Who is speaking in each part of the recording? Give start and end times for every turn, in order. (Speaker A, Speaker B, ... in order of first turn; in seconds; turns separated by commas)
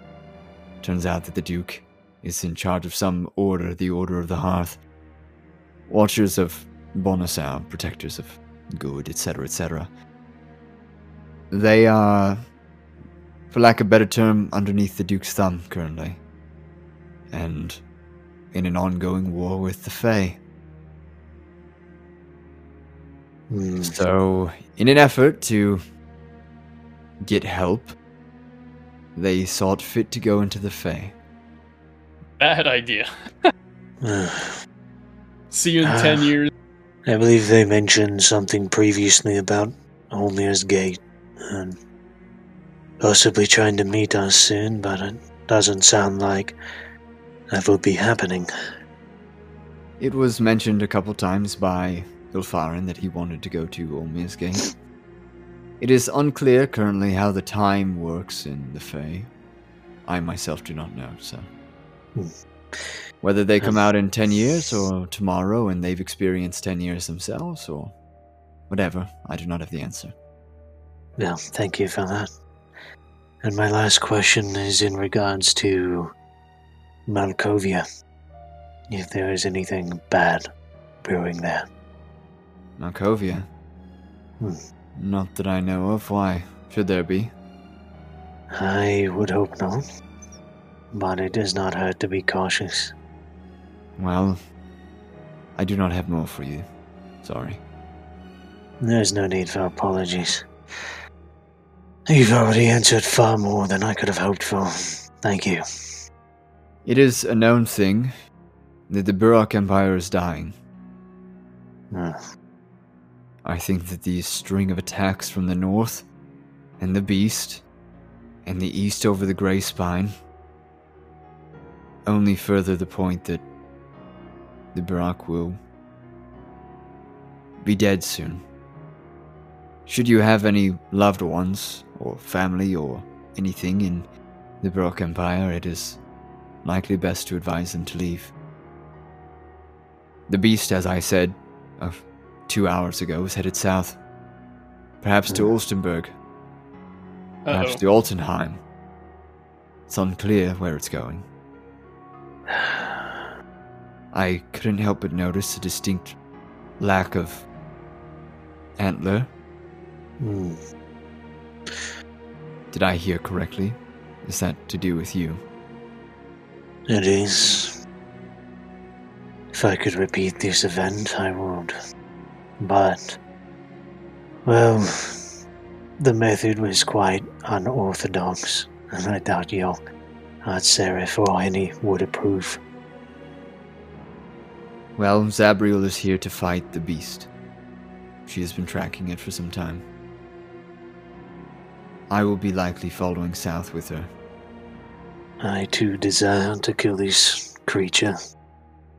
Speaker A: 0.8-4.8, Speaker A: 5.9-9.9, Speaker A: 11.5-12.4, Speaker A: 13.5-16.2, Speaker A: 17.3-17.8, Speaker A: 18.5-20.4, Speaker B: 23.5-24.0, Speaker A: 23.8-25.8, Speaker A: 27.2-27.9, Speaker A: 29.1-31.1, Speaker C: 32.4-33.1, Speaker B: 34.0-34.5, Speaker C: 35.5-36.5, Speaker B: 35.8-36.3, Speaker B: 37.0-41.8, Speaker B: 43.0-46.5, Speaker B: 47.5-48.5, Speaker A: 50.0-54.6, Speaker A: 55.8-59.3, Speaker A: 60.0-61.5, Speaker B: 62.1-62.9, Speaker A: 63.2-67.9, Speaker A: 68.7-70.1, Speaker B: 71.2-72.3, Speaker B: 73.4-76.1, Speaker B: 77.1-77.8, Speaker B: 78.9-80.5, Speaker B: 81.0-81.7, Speaker A: 82.8-83.5, Speaker A: 85.0-87.3, Speaker B: 88.5-89.8, Speaker B: 90.9-92.9, Speaker A: 94.0-94.4, Speaker A: 95.5-96.7, Speaker A: 97.2-97.6, Speaker B: 98.8-100.4, Speaker B: 102.1-105.6, Speaker A: 106.8-108.1, Speaker A: 108.9-110.6, Speaker A: 113.4-116.0, Speaker A: 116.8-117.6, Speaker A: 118.4-120.1, Speaker A: 122.0-123.4, Speaker A: 124.7-125.6, Speaker A: 127.6-128.4, Speaker A: 129.8-134.1, Speaker A: 134.6-136.0, Speaker A: 136.6-138.3, Speaker A: 140.3-144.0, Speaker A: 145.0-146.1, Speaker C: 147.4-147.8, Speaker A: 147.5-148.6, Speaker A: 149.9-151.3, Speaker B: 152.5-153.2, Speaker A: 154.1-156.2, Speaker A: 156.8-157.4, Speaker A: 158.8-159.3, Speaker B: 160.2-160.6, Speaker A: 162.7-165.4, Speaker B: 166.9-167.7, Speaker B: 169.5-171.7, Speaker B: 172.6-173.2, Speaker B: 174.4-175.2, Speaker B: 176.0-179.8, Speaker B: 180.4-182.6, Speaker A: 185.0-187.3, Speaker A: 188.2-189.8, Speaker A: 192.1-194.1, Speaker B: 195.4-198.2